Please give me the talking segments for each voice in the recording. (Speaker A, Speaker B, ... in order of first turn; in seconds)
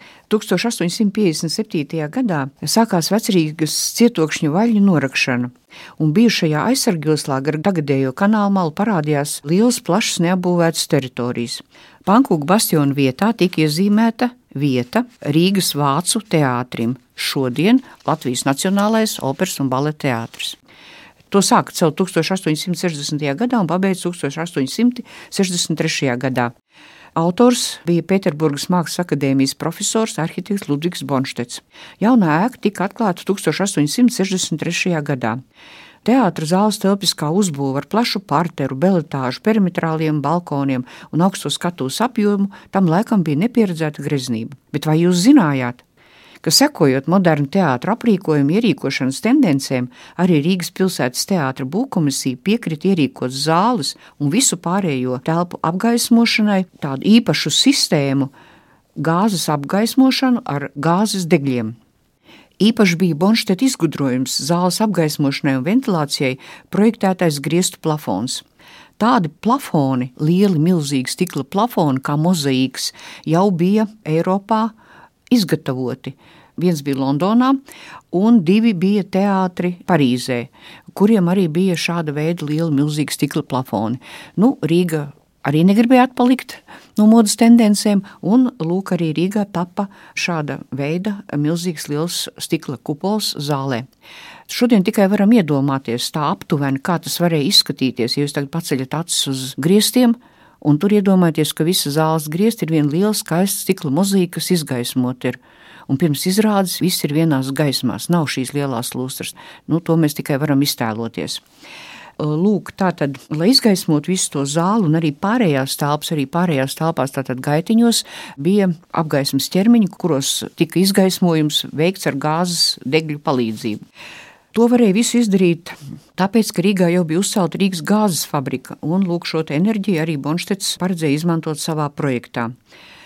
Speaker A: 0.3-20.6, 21.3-26.5, 27.1-35.4, 36.0-45.8, 46.4-58.3, 59.0-61.7, 62.6-68.4, 69.0-74.7, 75.3-77.6, 78.1-93.8, 94.5-111.4, 112.2-123.8, 124.5-132.5